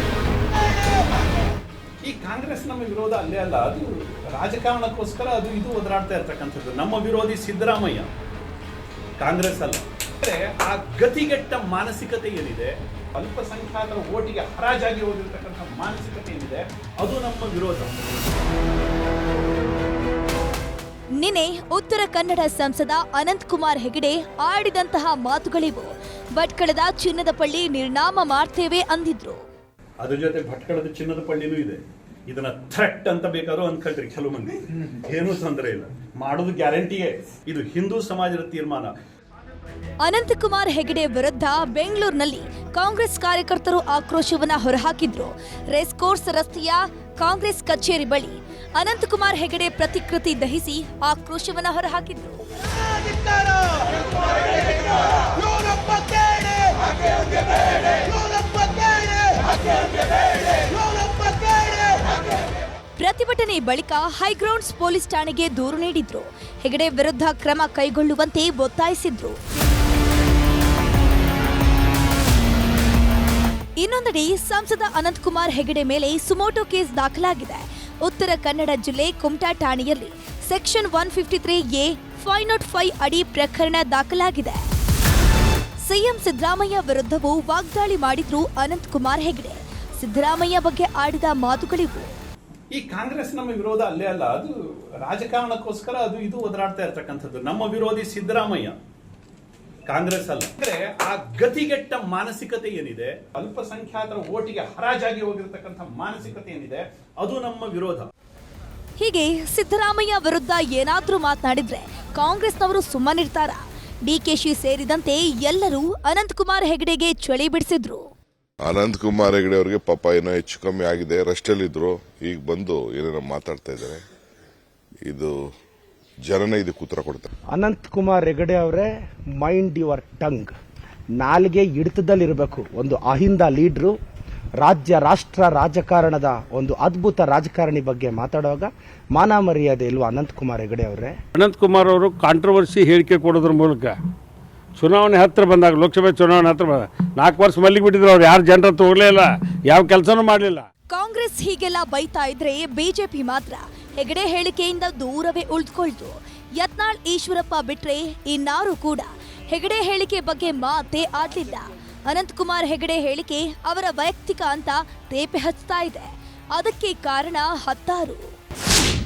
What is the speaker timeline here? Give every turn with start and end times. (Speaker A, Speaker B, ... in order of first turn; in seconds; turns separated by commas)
Speaker A: 2.0-8.1, Speaker A: 9.2-17.9, Speaker B: 21.2-29.4, Speaker A: 30.0-38.9, Speaker B: 40.0-52.4, Speaker B: 63.0-69.4, Speaker B: 73.8-84.6, Speaker B: 85.8-92.1, Speaker A: 92.7-94.5, Speaker A: 95.0-98.8, Speaker A: 99.9-108.1, Speaker B: 109.0-118.1, Speaker C: 118.6-124.0, Speaker C: 125.0-125.3, Speaker C: 126.2-127.3, Speaker D: 127.5-128.9, Speaker D: 129.4-130.5, Speaker D: 131.2-133.9, Speaker D: 134.6-141.1, Speaker E: 141.4-144.0, Speaker E: 144.8-150.7, Speaker B: 150.9-168.3